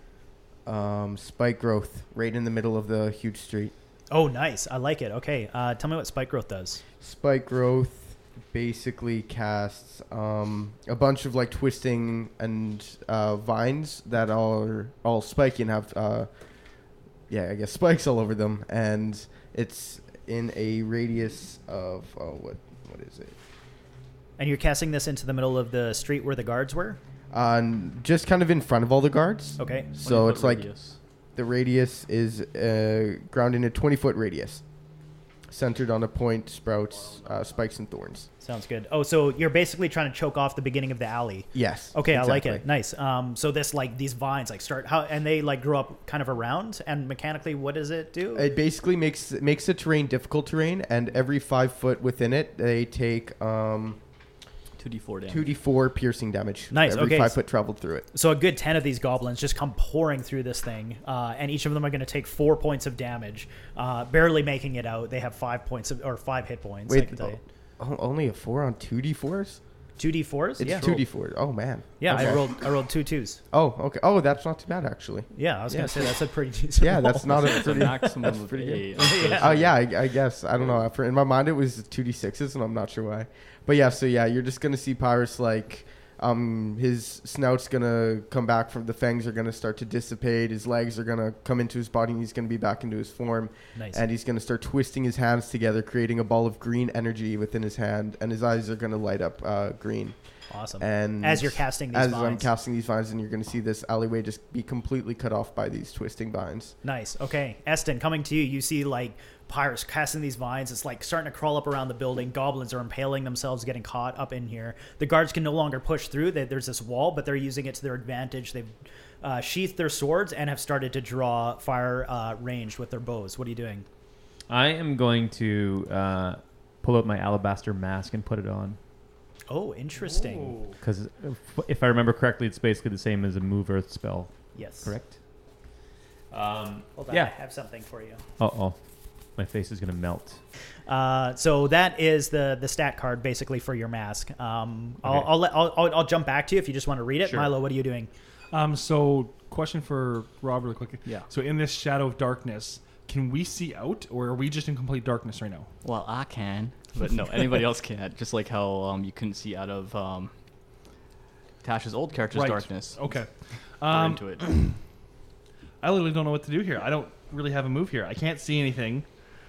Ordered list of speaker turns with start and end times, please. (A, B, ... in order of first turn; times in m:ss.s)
0:00.6-0:03.7 A
0:04.1-0:06.8 B
0:07.0-0:16.3 A
0:17.3-0:23.4 A
0:24.4-0:27.0 B
0:27.3-0:30.7 A
0:29.6-0:29.9 B
0:30.0-0:31.0 C
0:31.3-0:34.6 A
0:35.5-0:38.3 A
0:38.4-0:48.5 B
0:41.5-0:42.6 A
0:48.3-0:54.0 A
0:54.8-0:55.5 C
0:55.3-0:58.0 A
0:56.7-0:57.4 B
0:58.1-1:07.4 B
1:06.9-1:09.6 A
1:10.0-1:11.0 B
1:10.6-1:12.6 A
1:12.0-1:13.4 B
1:13.5-1:16.2 A
1:15.3-1:17.5 B
1:16.8-1:40.2 A
1:17.3-1:19.7 C
1:19.0-1:19.6 B
1:33.8-1:34.0 B
1:40.5-1:42.5 B
1:40.8-1:46.7 A
1:46.8-2:03.8 B
2:04.5-2:08.8 D
2:09.5-2:10.6 B
2:10.0-2:10.8 E
2:10.8-2:15.1 D
2:14.5-2:14.9 B
2:16.3-2:17.3 D
2:17.0-2:18.2 B
2:18.4-2:18.8 D
2:19.4-2:20.4 D
2:20.9-2:28.1 B
2:25.0-2:25.3 D
2:27.2-2:27.5 D
2:28.5-2:35.7 E
2:35.8-2:40.3 C
2:41.6-2:43.0 C
2:42.3-2:44.8 E
2:43.9-2:44.5 C
2:45.8-2:49.0 E